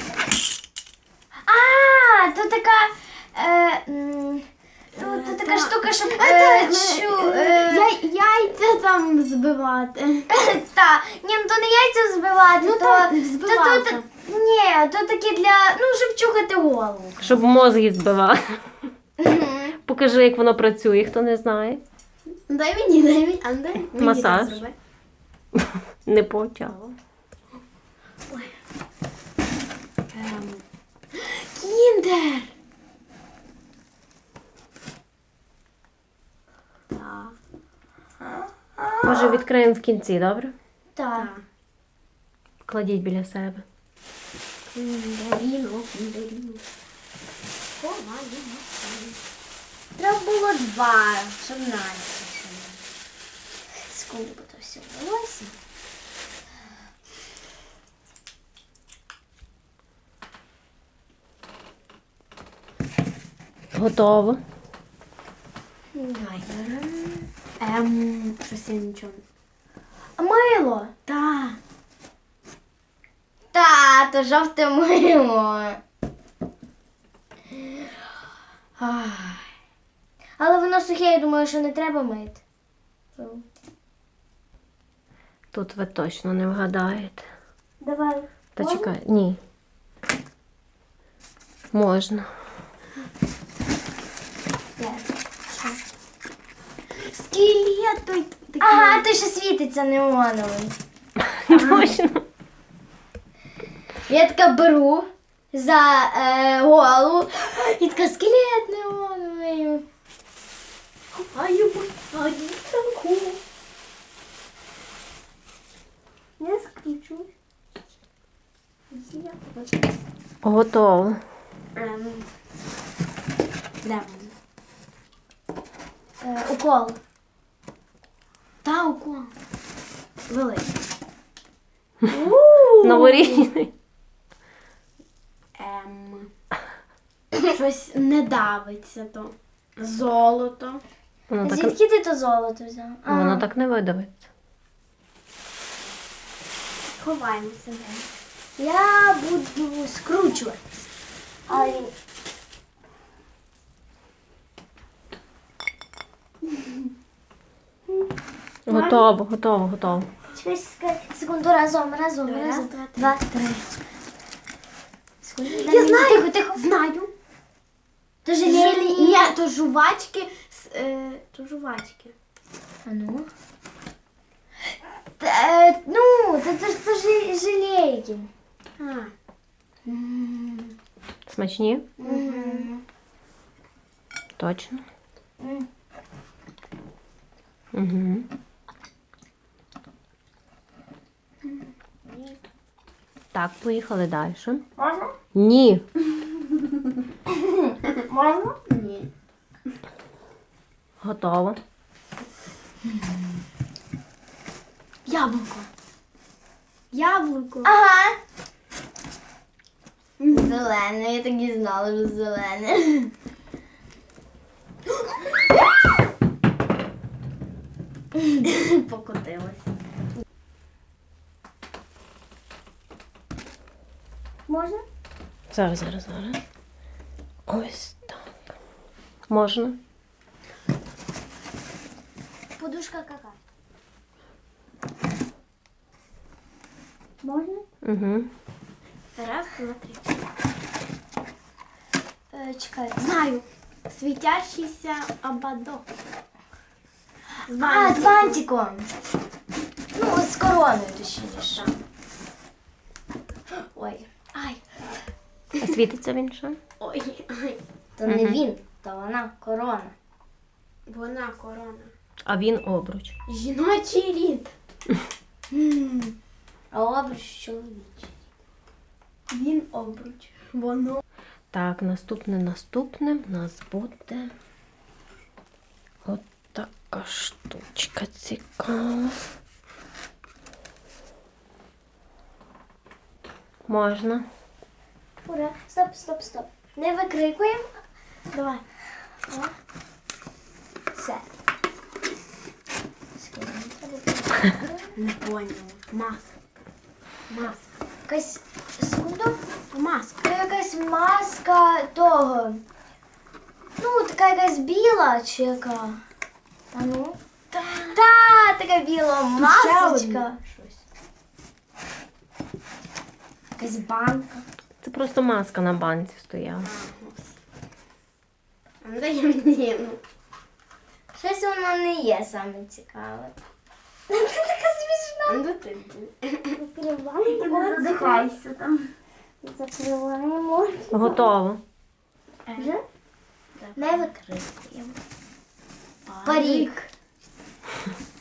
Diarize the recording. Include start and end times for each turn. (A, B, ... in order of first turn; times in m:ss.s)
0:01.4-0:04.4 A
0:05.0-0:10.3 B
0:05.0-0:07.9 A
0:10.3-0:17.4 A
0:12.6-0:14.0 B
0:17.2-0:18.6 C
0:19.2-0:19.7 A
0:19.8-0:21.8 C
0:22.5-0:24.7 B
0:24.0-0:24.6 C
0:25.5-0:26.8 C
0:26.6-0:26.9 B
0:30.1-0:32.5 B
0:36.9-0:37.3 B
0:39.0-0:40.5 C
0:40.9-0:41.3 A
0:41.1-0:41.4 B
0:42.6-0:43.6 C
0:44.7-0:46.6 B
0:47.8-0:49.2 B
0:50.0-0:51.4 A
0:51.4-0:52.8 B
0:53.8-0:55.5 A
1:03.7-1:04.4 C
1:05.9-1:07.3 A
1:07.6-1:09.2 B
1:10.2-1:10.9 A
1:11.0-1:11.6 B
1:13.5-1:15.8 A
1:18.8-1:19.5 B
1:20.4-1:22.4 A
1:23.2-1:23.4 A
1:25.5-1:27.2 C
1:27.8-1:28.9 A
1:28.6-1:29.4 C
1:31.7-1:32.3 C
1:34.8-1:35.8 A
1:37.1-1:39.0 B
1:38.6-1:40.8 A
1:41.3-1:42.2 C
1:41.5-1:41.9 B
1:44.1-1:49.8 A
1:51.1-1:53.4 B
1:56.4-1:57.3 A
1:58.9-1:59.7 A
2:00.4-2:01.2 C
2:01.7-2:02.2 B
2:03.8-2:04.3 B
2:06.2-2:07.0 A
2:08.6-2:09.3 B
2:10.3-2:10.7 B
2:12.1-2:13.5 B
2:12.8-2:13.7 C
2:15.6-2:16.3 B
2:17.4-2:20.8 B
2:21.3-2:21.7 C
2:21.4-2:23.4 A
2:23.1-2:24.2 C
2:27.0-2:28.0 B
2:28.6-2:30.8 A
2:31.5-2:31.9 A
2:38.7-2:40.1 C
2:38.7-2:39.1 B
2:40.3-2:43.8 A
2:42.2-2:43.2 B
2:45.2-2:46.6 A
2:45.5-2:47.1 B
2:48.2-2:49.3 A
2:48.4-2:52.1 B
2:52.8-2:53.3 A
2:55.2-2:58.3 A
2:58.8-2:59.1 B
2:59.9-3:00.6 A
3:01.3-3:01.9 C
3:02.0-3:02.7 B
3:02.0-3:02.8 A
3:04.4-3:04.8 C
3:05.4-3:05.7 A
3:07.7-3:08.3 C
3:13.3-3:14.6 C
3:14.8-3:15.1 A
3:15.3-3:15.8 C
3:17.9-3:18.6 A
3:18.7-3:19.1 B
3:21.0-3:21.6 C
3:25.0-3:25.7 B
3:26.9-3:27.7 B
3:27.6-3:28.2 A
3:30.2-3:30.6 B
3:30.3-3:33.1 A
3:35.0-3:35.3 B
3:38.4-3:39.7 B
3:44.5-3:44.8 A
3:45.5-3:46.4 C
3:47.5-3:48.3 C
3:49.3-3:49.8 C
3:52.6-3:53.4 A
3:57.2-3:57.6 A
3:57.8-3:58.3 C
3:59.2-4:00.0 B
4:02.3-4:03.0 A
4:03.0-4:05.8 B
4:07.4-4:08.4 B
4:07.6-4:08.9 A
4:09.9-4:11.6 A
4:13.7-4:14.1 A
4:14.3-4:14.8 B
4:15.5-4:16.6 C
4:16.8-4:17.6 B
4:18.0-4:19.9 A
4:18.0-4:18.4 C
4:20.9-4:21.9 B
4:22.2-4:23.1 C
4:23.3-4:24.5 B
4:25.5-4:26.1 A
4:26.7-4:28.1 A
4:29.3-4:31.0 B
4:31.5-4:34.3 C
4:36.0-4:39.2 C
4:43.7-4:44.2 C
4:45.2-4:47.7 A
4:48.3-4:48.6 B
4:50.9-4:51.3 A
4:53.2-4:54.9 A
4:54.9-4:56.3 B
4:57.3-4:57.7 B
4:58.1-4:59.4 A
4:59.7-5:00.3 B
5:00.2-5:02.6 A
5:03.8-5:06.0 A
5:06.7-5:07.2 A
5:07.5-5:08.0 B
5:07.9-5:10.4 A
5:09.4-5:10.8 B
5:13.6-5:14.4 A
5:14.8-5:16.7 C
5:16.6-5:17.3 B
5:18.8-5:20.0 B
5:21.1-5:23.3 A
5:24.1-5:25.4 A
5:25.2-5:26.5 B
5:26.5-5:28.5 A
5:27.2-5:28.9 B
5:29.4-5:31.3 A
5:30.9-5:31.6 C
5:32.5-5:32.7 B
5:32.6-5:32.8 A
5:33.6-5:34.1 B
5:33.8-5:35.0 A
5:36.0-5:36.9 B
5:36.2-5:36.8 A